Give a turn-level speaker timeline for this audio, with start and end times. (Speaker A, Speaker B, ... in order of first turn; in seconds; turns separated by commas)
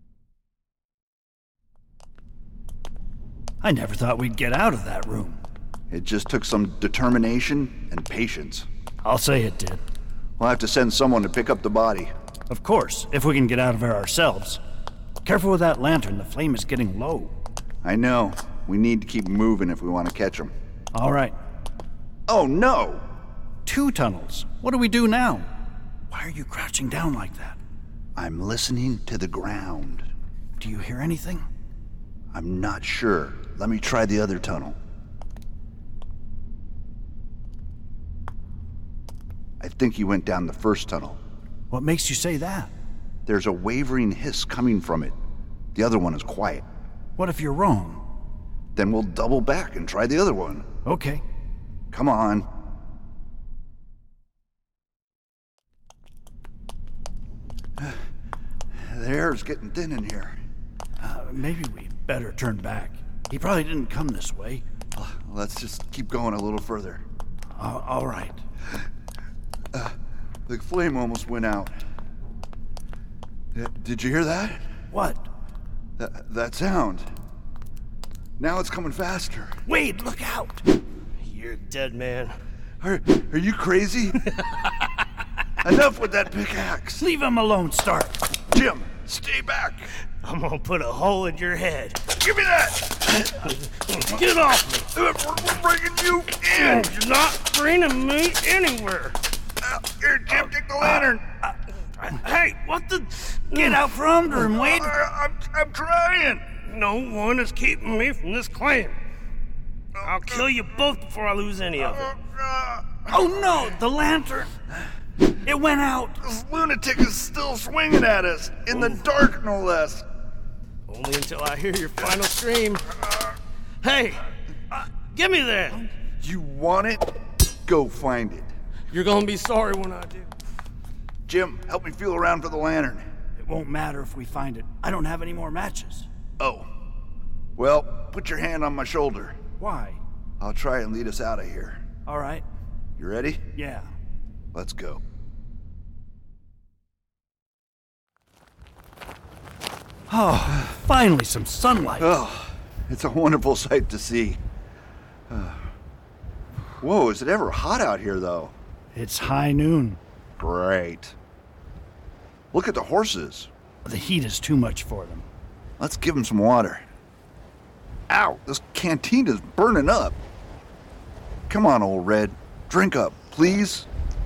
Speaker A: 3.6-5.4, Speaker B: 5.9-8.7, Speaker A: 9.0-9.8, Speaker B: 10.4-12.1, Speaker A: 12.5-14.6, Speaker A: 15.2-17.3, Speaker B: 17.8-20.5, Speaker A: 20.9-21.4, Speaker B: 22.3-23.1, Speaker A: 23.6-25.5, Speaker A: 26.1-27.6, Speaker B: 28.1-30.1, Speaker A: 30.6-31.5, Speaker B: 32.3-34.8, Speaker B: 39.6-41.2, Speaker A: 41.7-42.7, Speaker B: 43.2-45.2, Speaker B: 45.8-46.6, Speaker A: 47.2-48.0, Speaker B: 48.8-50.7, Speaker A: 50.8-51.2, Speaker B: 51.9-52.5, Speaker B: 58.8-60.4, Speaker A: 61.0-64.6, Speaker B: 65.0-67.0, Speaker A: 67.5-68.4, Speaker B: 70.5-71.8, Speaker B: 73.5-74.6, Speaker A: 74.9-75.3, Speaker B: 76.0-77.1, Speaker B: 78.4-79.5, Speaker A: 79.7-80.7, Speaker C: 81.2-82.3, Speaker B: 82.8-84.3, Speaker B: 85.6-87.0, Speaker A: 87.0-88.2, Speaker B: 88.5-89.9, Speaker C: 90.2-92.0, Speaker B: 92.2-93.0, Speaker C: 93.5-94.9, Speaker B: 94.9-96.9, Speaker C: 96.6-99.2, Speaker B: 99.6-101.2, Speaker C: 102.2-103.8, Speaker A: 103.5-104.9, Speaker B: 104.4-106.4, Speaker C: 106.7-109.0, Speaker C: 110.0-112.1, Speaker B: 111.9-113.1, Speaker A: 113.1-114.5, Speaker A: 115.5-116.2, Speaker B: 116.2-120.0, Speaker C: 120.9-123.0, Speaker C: 123.8-124.3, Speaker C: 125.1-125.8, Speaker B: 126.2-127.1, Speaker B: 127.7-128.5, Speaker C: 128.9-130.3, Speaker B: 131.3-133.1, Speaker A: 133.4-136.1, Speaker B: 136.4-136.7, Speaker B: 137.6-139.4, Speaker A: 139.6-140.0, Speaker B: 140.4-141.8, Speaker A: 142.1-142.4, Speaker B: 143.0-143.4, Speaker A: 143.5-143.9, Speaker B: 144.5-145.0, Speaker A: 150.1-152.1, Speaker B: 152.0-154.4, Speaker B: 155.3-155.6, Speaker B: 156.8-158.5, Speaker A: 158.9-160.0, Speaker B: 160.4-161.2, Speaker B: 162.5-163.5, Speaker A: 163.8-165.2, Speaker B: 165.8-166.8, Speaker B: 168.1-170.2, Speaker B: 171.5-173.9